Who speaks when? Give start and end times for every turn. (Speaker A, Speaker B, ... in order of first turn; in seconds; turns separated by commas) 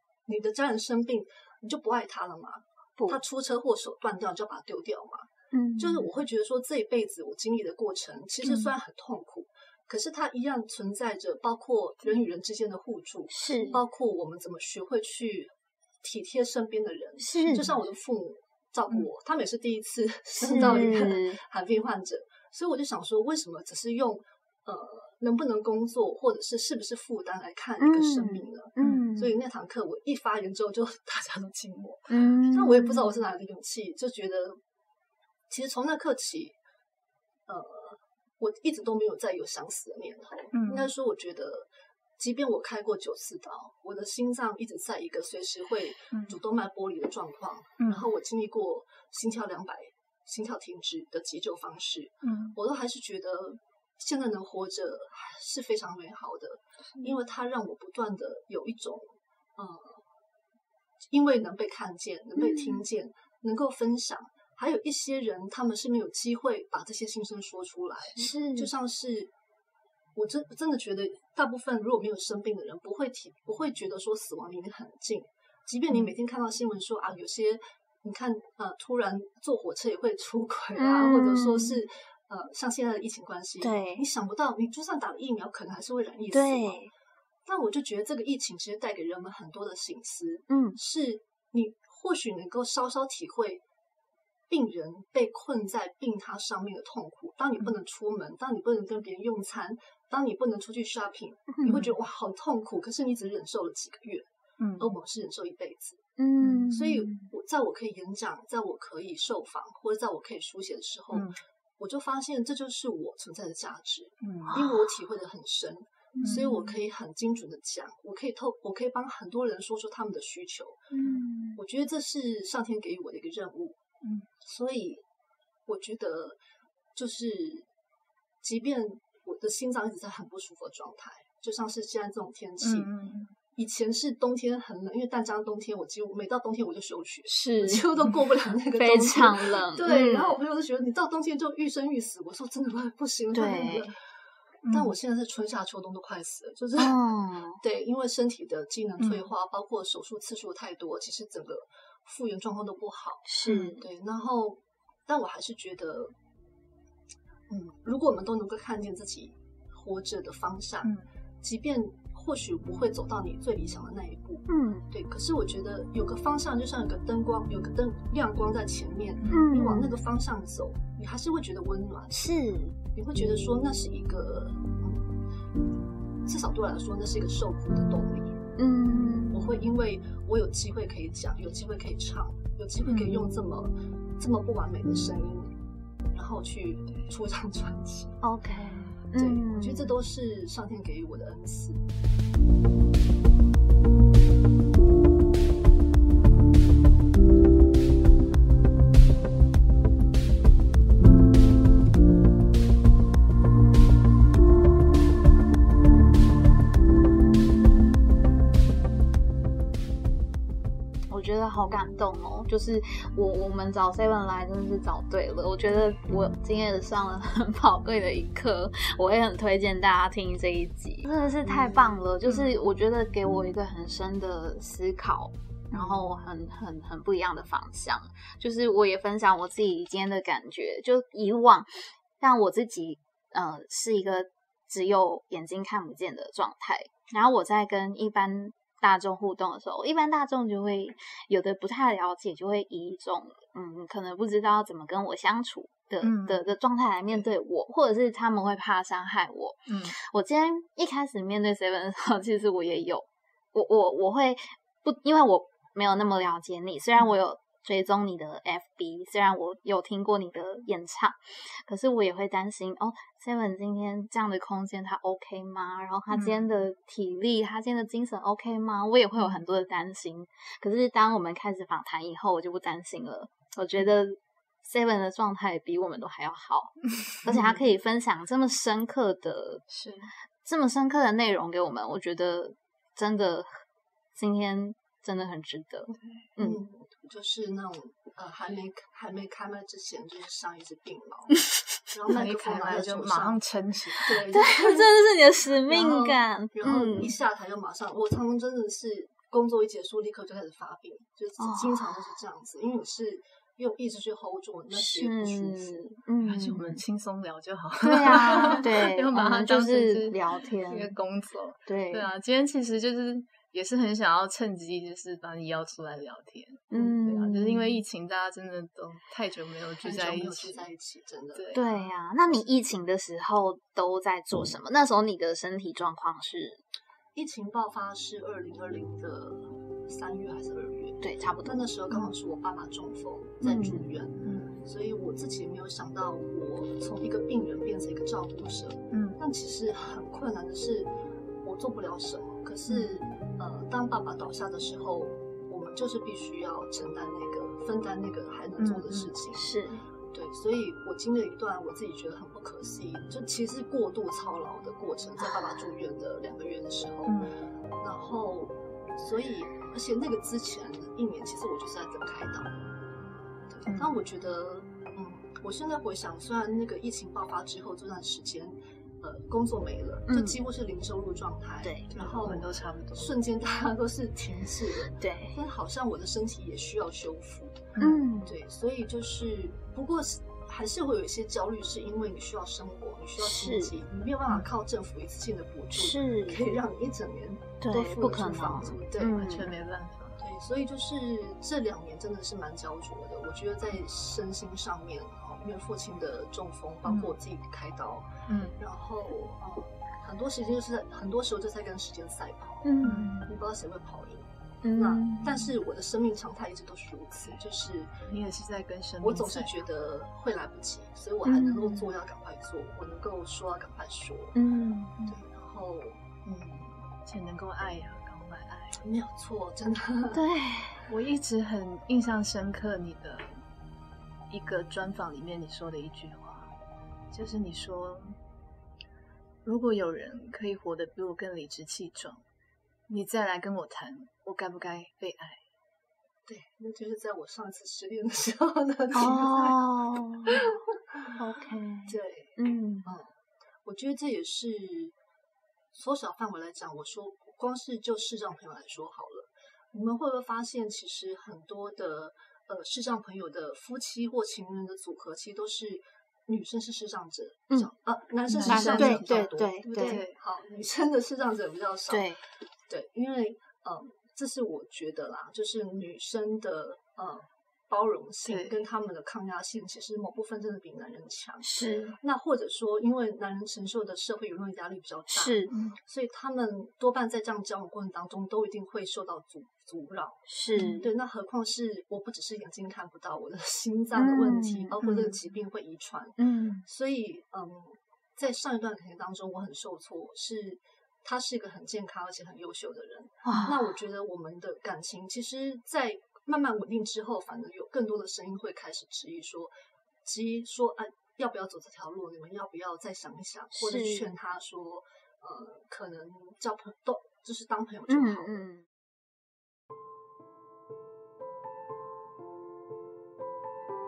Speaker A: 0.2-34.6, Speaker B: 5.5-6.0, Speaker B: 13.3-13.8, Speaker B: 17.2-17.6, Speaker B: 20.4-21.4, Speaker C: 20.6-20.9, Speaker B: 27.8-29.3, Speaker C: 28.8-29.1, Speaker B: 32.1-32.9, Speaker A: 35.5-36.6, Speaker A: 37.5-60.0, Speaker C: 40.5-40.9, Speaker C: 46.1-46.4, Speaker C: 47.8-48.1, Speaker C: 52.2-52.6, Speaker A: 61.1-69.3, Speaker B: 62.4-62.8, Speaker B: 68.2-68.7, Speaker A: 70.1-86.8, Speaker B: 80.8-81.8, Speaker B: 83.6-84.0, Speaker B: 86.3-86.9, Speaker A: 87.5-93.6, Speaker B: 90.5-90.8, Speaker A: 94.5-106.0, Speaker B: 101.5-101.9, Speaker C: 104.6-104.9, Speaker B: 106.2-107.3, Speaker C: 106.4-106.7, Speaker A: 106.7-120.9, Speaker C: 111.1-111.4, Speaker C: 114.2-114.6, Speaker B: 114.5-114.7, Speaker B: 116.1-116.5, Speaker C: 116.2-116.7, Speaker C: 120.9-121.2, Speaker B: 121.0-121.6, Speaker A: 121.5-123.8, Speaker C: 124.0-124.3, Speaker A: 124.4-125.0, Speaker A: 125.7-126.4, Speaker A: 126.9-127.7, Speaker A: 128.4-132.9, Speaker C: 132.6-133.3, Speaker A: 133.5-144.0, Speaker B: 137.3-137.8, Speaker B: 138.7-140.4, Speaker B: 143.3-143.9, Speaker C: 144.6-144.9, Speaker A: 144.7-147.1, Speaker B: 146.8-147.6, Speaker A: 147.6-156.1, Speaker C: 149.0-149.3, Speaker B: 153.2-153.8, Speaker C: 153.4-153.7, Speaker A: 157.5-172.2, Speaker B: 164.5-164.9, Speaker B: 169.3-170.0, Speaker B: 172.1-172.7, Speaker A: 172.9-175.1, Speaker A: 176.2-178.4, Speaker B: 178.6-179.6, Speaker A: 179.3-185.5, Speaker C: 182.8-183.1, Speaker A: 186.1-188.2, Speaker B: 188.2-189.9, Speaker A: 189.1-191.8, Speaker B: 211.1-279.6, Speaker C: 222.2-222.6, Speaker C: 225.7-226.0, Speaker C: 246.0-246.4, Speaker C: 249.7-249.9, Speaker C: 266.1-266.5, Speaker C: 277.3-277.6, Speaker C: 279.7-280.1, Speaker B: 280.4-283.6, Speaker B: 284.1-286.6, Speaker C: 285.9-286.2, Speaker A: 286.4-293.4, Speaker C: 292.1-294.2, Speaker A: 294.0-294.9, Speaker B: 294.3-297.1, Speaker A: 295.7-306.0, Speaker B: 301.4-302.0, Speaker B: 304.7-306.8, Speaker C: 306.2-320.6, Speaker B: 307.8-310.9, Speaker A: 308.1-308.7, Speaker B: 311.7-312.1, Speaker B: 316.7-317.8, Speaker A: 319.8-321.5, Speaker C: 321.3-321.9, Speaker B: 321.5-326.6, Speaker A: 327.1-340.9, Speaker B: 331.0-331.6, Speaker B: 333.4-333.8, Speaker C: 334.2-334.6, Speaker C: 338.9-339.2, Speaker A: 341.4-349.5, Speaker C: 342.7-342.9, Speaker C: 348.6-349.1, Speaker B: 349.3-349.8, Speaker A: 350.1-357.3, Speaker C: 357.1-357.3, Speaker A: 357.8-362.5, Speaker A: 363.5-377.7, Speaker B: 370.1-370.4, Speaker C: 371.9-373.2, Speaker B: 375.0-375.4, Speaker C: 377.7-378.0, Speaker B: 377.8-378.3, Speaker A: 378.2-389.2, Speaker B: 383.2-383.7, Speaker B: 385.7-386.4, Speaker B: 387.6-389.5, Speaker C: 389.1-390.2, Speaker A: 390.2-402.6, Speaker C: 396.8-397.2, Speaker C: 398.3-398.6, Speaker B: 402.6-403.3, Speaker C: 402.8-403.1, Speaker A: 403.2-407.9, Speaker B: 404.6-405.5, Speaker C: 408.0-409.6, Speaker A: 409.0-414.4, Speaker B: 411.2-411.8, Speaker B: 414.3-414.9, Speaker A: 415.1-416.0, Speaker C: 416.2-418.8, Speaker A: 418.8-420.2, Speaker B: 420.1-420.8, Speaker C: 420.9-423.4, Speaker C: 424.3-426.5, Speaker C: 427.1-428.1, Speaker C: 429.4-432.2, Speaker C: 432.9-435.4, Speaker A: 436.2-439.6, Speaker B: 438.9-440.4, Speaker A: 440.2-441.2, Speaker B: 441.2-442.9, Speaker A: 441.9-444.9, Speaker A: 445.7-462.1, Speaker C: 458.3-460.1, Speaker B: 458.4-460.0, Speaker B: 461.9-462.2, Speaker A: 462.7-499.5, Speaker C: 468.2-468.6, Speaker B: 471.4-471.9, Speaker B: 475.1-475.5, Speaker B: 480.3-480.9, Speaker C: 480.5-480.8, Speaker B: 483.9-484.8, Speaker B: 486.2-486.6, Speaker B: 493.2-493.6, Speaker A: 500.0-508.4, Speaker B: 503.5-504.1, Speaker B: 507.9-508.6